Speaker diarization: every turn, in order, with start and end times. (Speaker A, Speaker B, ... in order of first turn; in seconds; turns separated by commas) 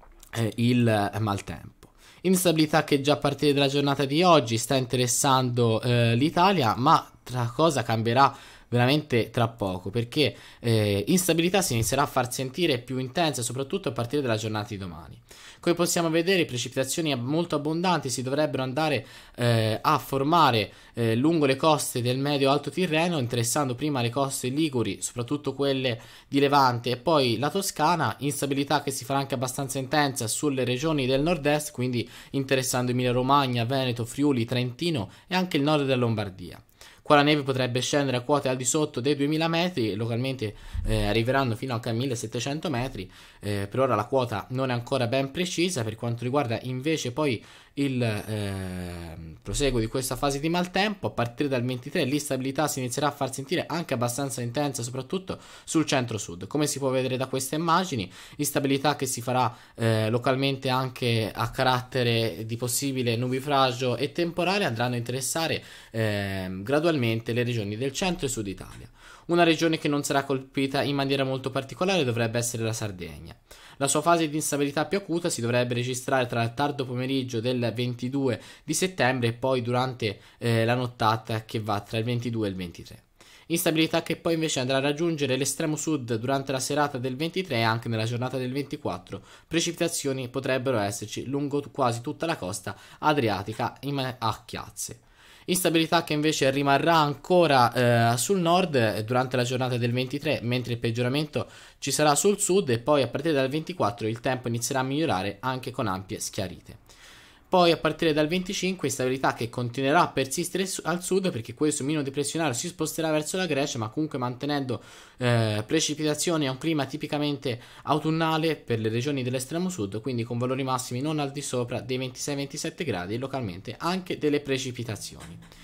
Speaker A: 0.3-106.8, Speaker A: 107.5-125.4